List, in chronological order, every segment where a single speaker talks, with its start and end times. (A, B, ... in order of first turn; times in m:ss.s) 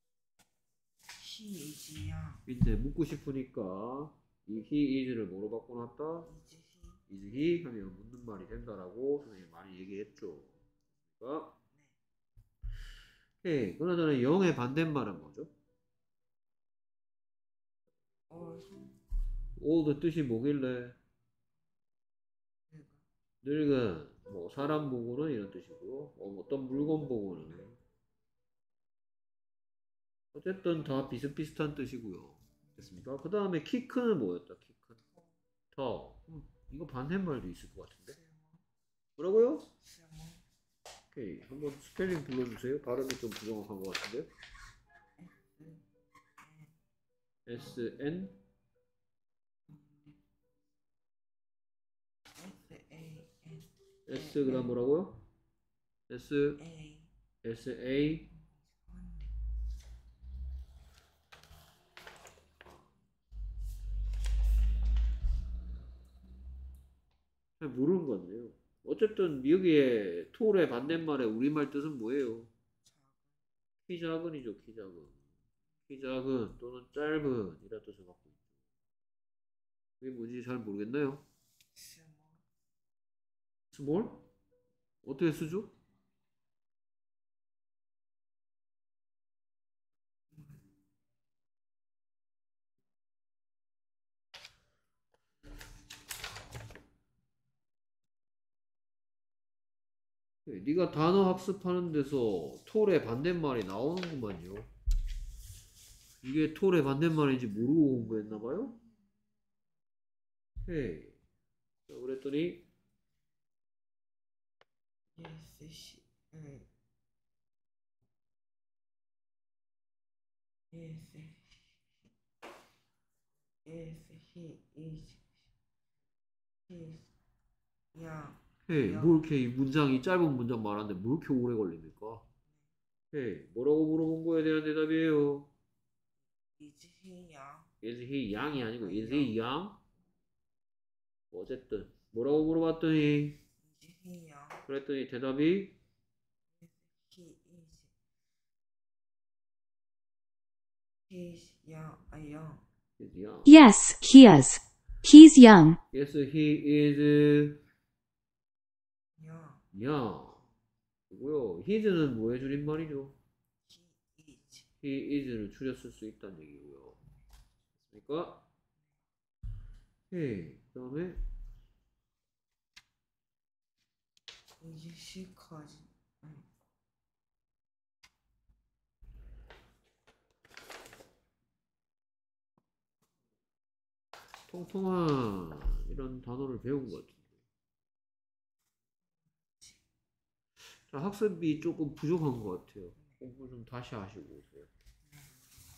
0:01.2-0:02.4 A
0:02.5-0:06.3 B
0:06.3-0:07.0 A
0:07.1-0:10.6 B
0:11.2-0:11.6 B
0:13.4-0:15.5 B
0:18.3-0:18.8 A
0:19.6-0:21.0 B
0:22.7-0:23.0 A
0:23.4-0:27.8 B
0:30.3-0:35.0 B
0:35.7-0:38.2 B
0:38.2-0:38.6 A
0:39.2-0:39.7 B
0:39.8-0:40.4 A
0:41.1-0:44.3 B
0:45.2-0:45.8 A
0:46.4-0:46.7 A
0:47.5-0:48.4 B
0:52.4-0:54.7 A
0:54.1-0:55.2 B
0:56.1-0:56.6 B
0:56.6-0:57.1 A
0:57.4-0:58.3 B
0:58.8-0:59.3 A
1:07.6-1:12.5 B
1:12.9-1:13.2 A
1:13.9-1:15.2 B
1:15.9-1:18.4 B
1:20.0-1:21.2 B
1:21.8-1:22.4 A
1:23.7-1:24.2 B
1:25.0-1:25.7 B
1:40.5-1:44.7 B
1:46.2-1:48.8 B
1:50.6-1:51.2 B
1:51.9-1:52.6 B
1:55.2-1:56.7 A
2:00.7-2:01.8 A
2:03.6-2:05.2 A
2:06.7-2:07.1 A
2:07.9-2:09.1 A
2:08.7-2:12.2 B
2:13.1-2:15.5 B
2:16.6-2:17.7 A
2:17.8-2:19.8 B
2:18.5-2:19.4 A
2:21.3-2:23.4 B
2:23.6-2:24.6 A
2:24.6-2:25.8 B
2:26.6-2:27.9 A
2:31.1-2:32.6 A
2:33.0-2:33.6 B
2:33.5-2:35.8 C
2:35.9-2:37.6 B
2:39.2-2:39.6 A
2:39.7-2:40.5 B
2:41.1-2:43.2 B
2:43.7-2:44.6 A
2:44.8-2:47.0 B
2:47.8-2:48.5 B
2:50.1-2:51.2 B
2:54.6-2:56.5 A
3:04.5-3:07.4 B
3:10.9-3:14.7 B